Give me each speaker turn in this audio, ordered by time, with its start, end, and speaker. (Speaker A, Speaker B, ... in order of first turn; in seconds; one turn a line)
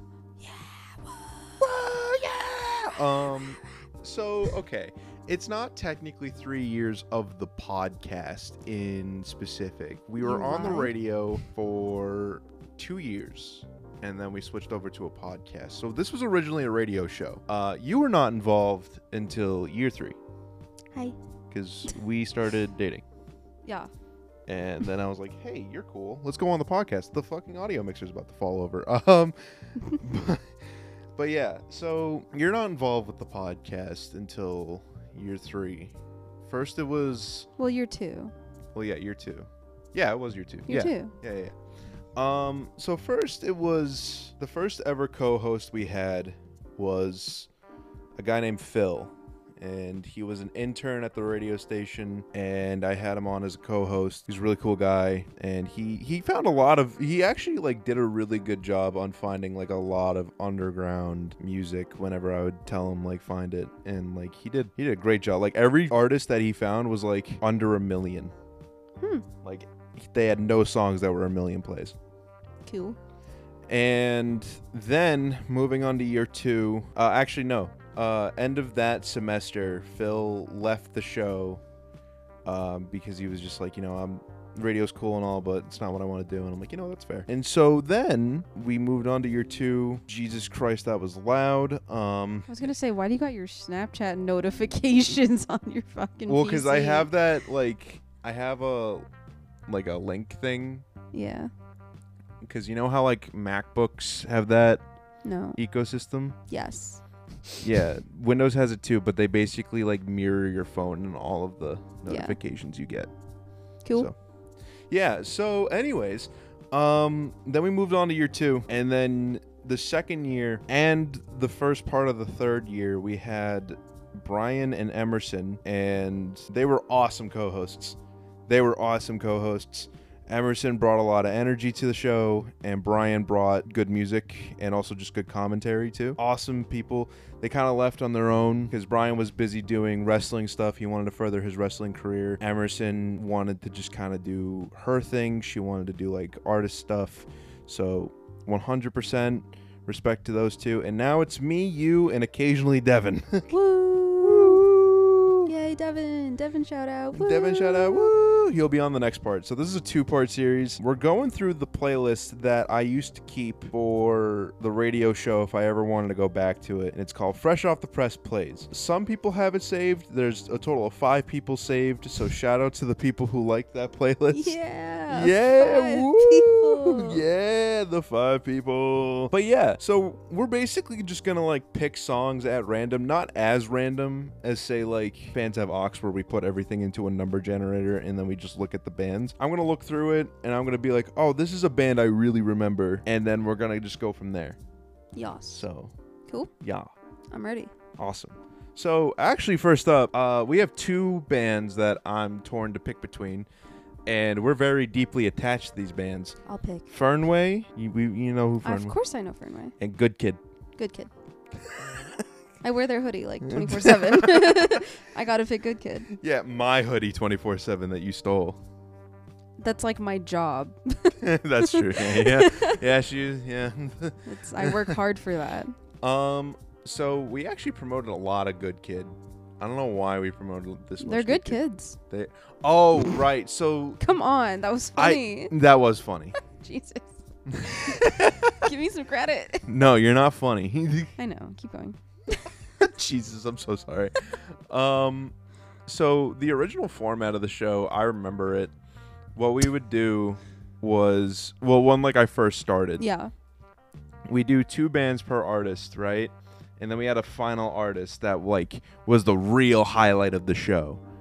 Speaker A: 0.4-1.5
Speaker B: 1.6-20.2
Speaker A: 10.2-10.9
Speaker B: 21.5-23.0
Speaker A: 23.6-23.9
Speaker B: 24.5-30.5
Speaker B: 31.2-37.5
Speaker A: 37.6-38.3
Speaker B: 38.7-41.5
Speaker A: 40.7-41.1
Speaker B: 42.2-47.5
Speaker B: 48.2-68.3
Speaker A: 69.0-69.3
Speaker B: 69.4-72.0
Speaker A: 72.7-73.0
Speaker B: 73.7-81.6
Speaker B: 82.5-92.7
Speaker A: 92.5-97.1
Speaker B: 96.3-99.0
Speaker B: 99.7-100.9
Speaker A: 101.1-101.5
Speaker B: 102.4-104.8
Speaker A: 105.2-105.6
Speaker B: 105.6-106.4
Speaker A: 106.5-107.6
Speaker B: 107.6-113.1
Speaker A: 112.1-112.4
Speaker A: 113.8-114.1
Speaker B: 114.9-155.5
Speaker A: 153.5-154.4
Speaker A: 155.5-158.2
Speaker B: 157.1-174.6
Speaker A: 174.3-177.2
Speaker B: 175.1-194.6
Speaker A: 195.2-195.6
Speaker B: 195.5-195.9
Speaker B: 196.6-196.9
Speaker A: 197.3-197.7
Speaker B: 198.0-203.5
Speaker B: 204.1-206.4
Speaker A: 206.5-206.9
Speaker B: 206.9-209.0
Speaker A: 208.6-209.8
Speaker B: 209.8-210.4
Speaker A: 210.8-211.1
Speaker B: 211.6-212.2
Speaker A: 212.6-216.1
Speaker B: 213.4-214.8
Speaker B: 216.1-218.6
Speaker A: 219.6-222.8
Speaker B: 221.2-225.0
Speaker A: 224.3-225.8
Speaker B: 226.0-234.0
Speaker A: 231.0-232.0
Speaker A: 234.0-235.5
Speaker B: 235.0-236.3
Speaker A: 236.3-239.7
Speaker B: 237.5-238.7
Speaker B: 239.7-241.1
Speaker A: 241.2-242.6
Speaker B: 242.8-245.3
Speaker B: 245.9-248.7
Speaker B: 249.4-253.0
Speaker A: 253.0-253.3
Speaker B: 254.3-261.0